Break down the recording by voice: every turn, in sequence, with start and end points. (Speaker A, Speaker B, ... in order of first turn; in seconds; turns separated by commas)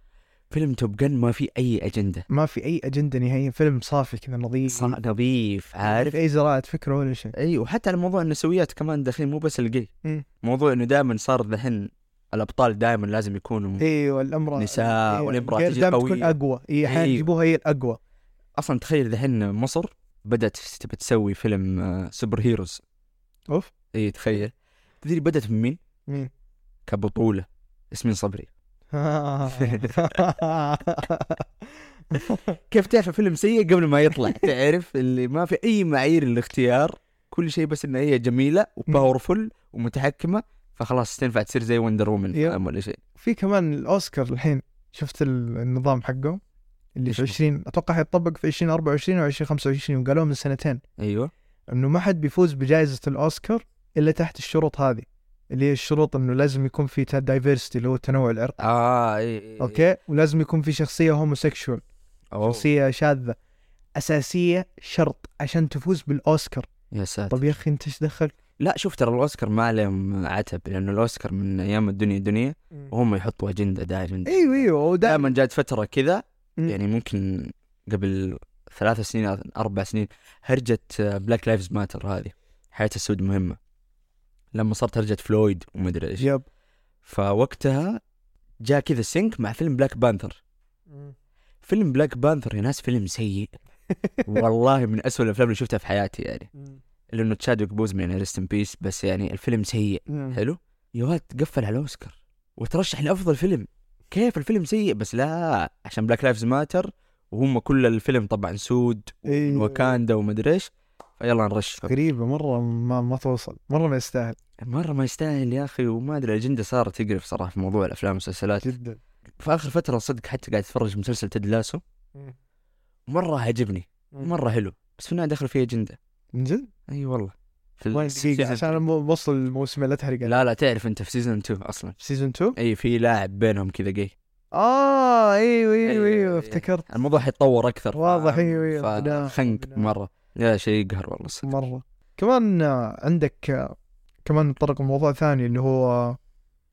Speaker A: 0.5-2.3, Speaker B: 2.3-5.0, Speaker A: 4.7-6.2, Speaker B: 5.9-7.3, Speaker A: 7.4-9.9, Speaker A: 10.4-13.8, Speaker B: 13.8-18.0, Speaker A: 14.6-16.3, Speaker A: 16.9-17.3, Speaker A: 18.6-22.8, Speaker A: 23.9-25.8, Speaker A: 26.9-28.5, Speaker B: 28.9-31.4, Speaker A: 29.5-30.2, Speaker B: 32.1-32.6, Speaker A: 32.7-43.0, Speaker B: 42.3-42.6, Speaker B: 43.2-46.4, Speaker B: 47.0-50.8, Speaker A: 47.1-47.4, Speaker A: 51.0-51.3, Speaker B: 51.7-58.6, Speaker A: 58.6-59.8, Speaker B: 59.6-61.8, Speaker A: 62.3-62.6, Speaker B: 62.4-63.4, Speaker B: 64.0-66.7, Speaker A: 66.9-67.5, Speaker B: 67.3-68.3, Speaker A: 68.6-83.6, Speaker B: 74.3-75.3, Speaker A: 84.5-86.3, Speaker B: 86.2-86.5, Speaker A: 87.0-88.0, Speaker A: 88.6-90.4, Speaker A: 91.6-93.5, Speaker B: 93.9-94.3, Speaker A: 94.2-96.5, Speaker A: 97.1-111.9, Speaker B: 100.1-100.4, Speaker B: 109.3-110.0, Speaker B: 111.8-114.4, Speaker A: 114.6-118.7, Speaker B: 118.6-119.0, Speaker A: 119.4-121.8, Speaker A: 123.1-126.0, Speaker B: 126.3-126.7, Speaker A: 126.9-128.8, Speaker B: 127.9-130.4, Speaker A: 130.2-132.0, Speaker B: 132.0-132.6, Speaker A: 132.6-134.1, Speaker B: 134.5-136.9, Speaker A: 135.8-141.5, Speaker B: 137.9-139.9, Speaker B: 141.4-146.2